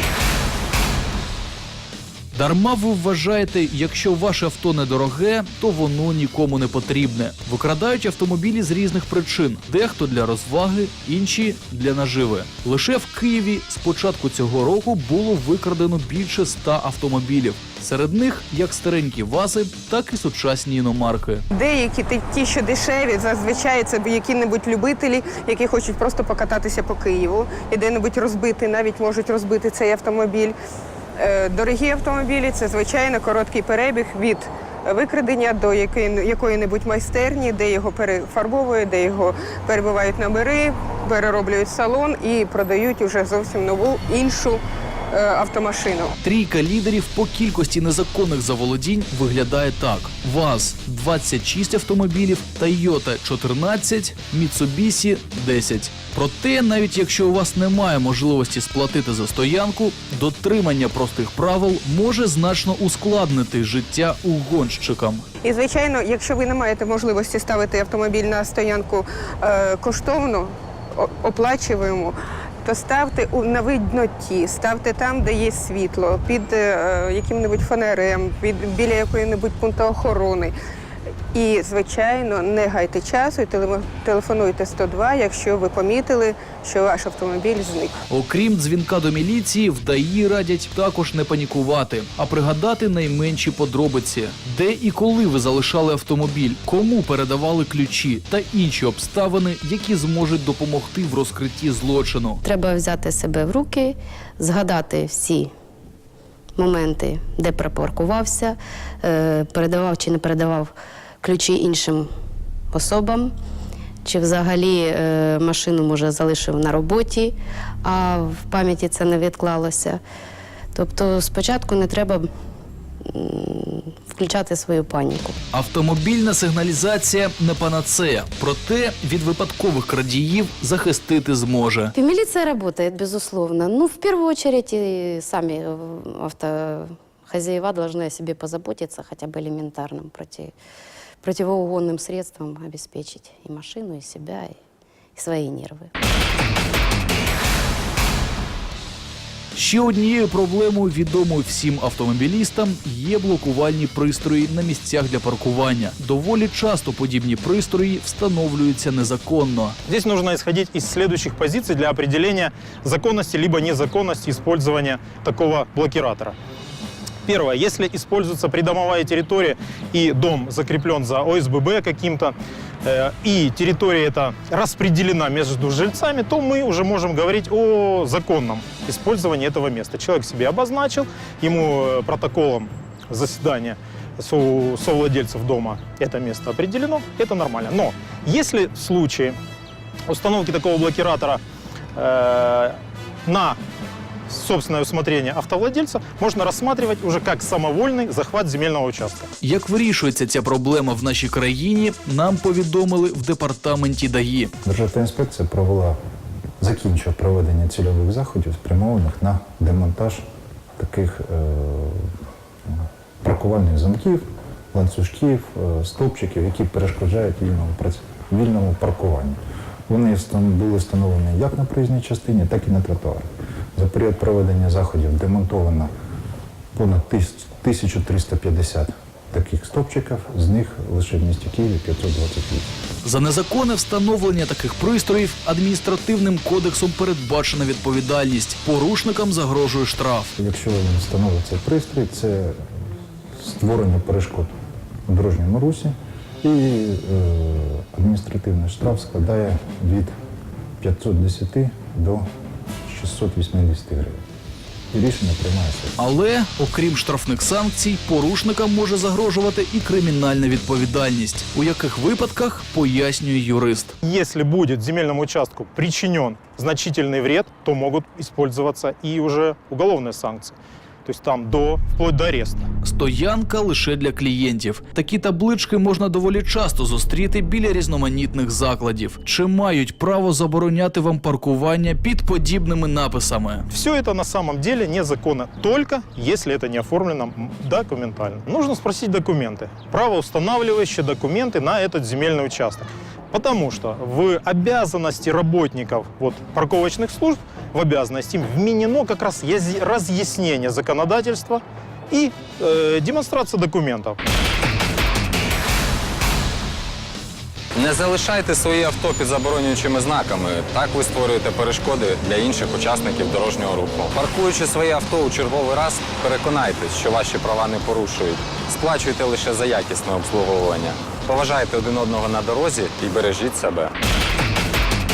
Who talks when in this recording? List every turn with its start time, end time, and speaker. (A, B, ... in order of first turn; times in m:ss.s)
0:02.3-0:21.4 A
0:21.5-0:30.6 B
0:31.2-0:44.6 B
0:45.1-0:46.1 B
0:46.2-1:05.2 A
1:05.4-1:20.5 B
1:21.3-1:27.9 B
1:28.1-1:42.4 A
1:42.4-1:45.5 C
1:46.6-1:52.1 C
1:52.7-1:53.3 C
1:54.0-2:00.0 C
2:00.7-2:02.3 C
2:03.1-2:05.4 C
2:05.5-2:11.9 A
2:11.9-2:20.5 C
2:21.2-2:24.6 C
2:25.2-2:25.9 C
2:29.5-2:39.8 A
2:39.9-2:46.4 D
2:47.2-3:09.4 D
3:10.1-3:11.4 D
3:12.0-3:13.6 D
3:14.3-3:19.3 D
3:19.4-3:24.5 A
3:24.6-3:26.0 E
3:26.6-3:30.2 E
3:30.8-3:32.1 E
3:32.7-3:45.9 E
3:46.8-3:52.7 E
3:53.0-4:00.3 A
4:00.4-4:02.6 E
4:03.4-4:04.5 E
4:05.1-4:10.1 E
4:10.8-4:12.2 E
4:12.9-4:14.2 E
4:14.9-4:16.0 E
4:16.0-4:24.0 A
4:24.0-4:32.6 D
4:32.8-4:43.7 A
4:43.7-5:04.2 D
5:07.8-5:23.9 F